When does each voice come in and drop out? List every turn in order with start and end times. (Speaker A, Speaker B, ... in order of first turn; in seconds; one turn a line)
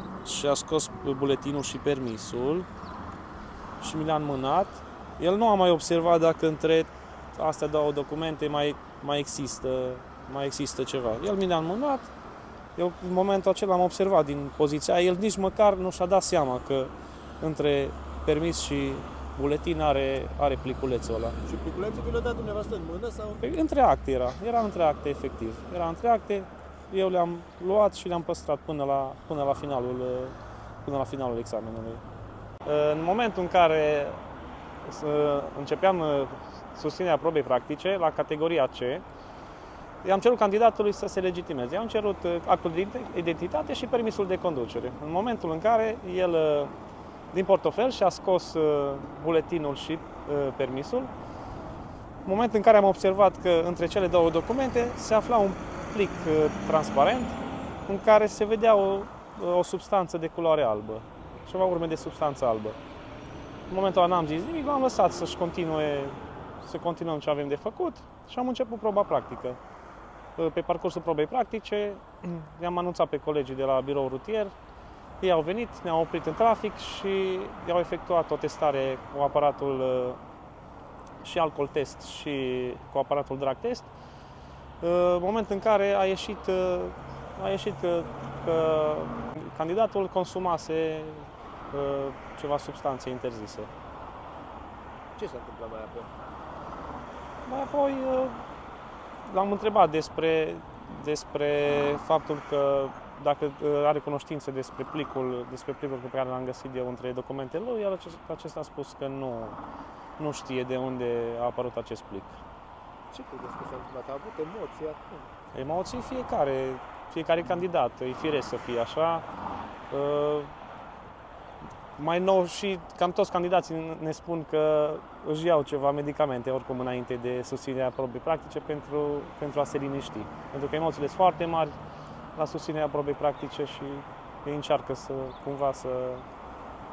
Speaker A: 0.2-2.7
Speaker A: 3.8-12.1
Speaker A: 12.8-21.4
Speaker B: 21.4-23.4
Speaker A: 23.4-32.0
Speaker A: 32.6-34.2
Speaker A: 34.8-39.0
Speaker A: 40.0-46.7
Speaker A: 47.3-51.1
Speaker A: 52.2-62.8
Speaker A: 63.7-69.6
Speaker A: 70.3-74.5
Speaker A: 75.2-80.2
Speaker A: 81.2-83.9
Speaker A: 84.8-93.7
Speaker B: 95.2-96.1
Speaker A: 97.5-98.4
Speaker A: 99.3-109.6
Speaker A: 110.2-112.4
Speaker B: 113.1-115.3
Speaker A: 115.5-119.2
Speaker A: 119.9-120.5
Speaker A: 122.0-131.8
Speaker A: 132.3-136.2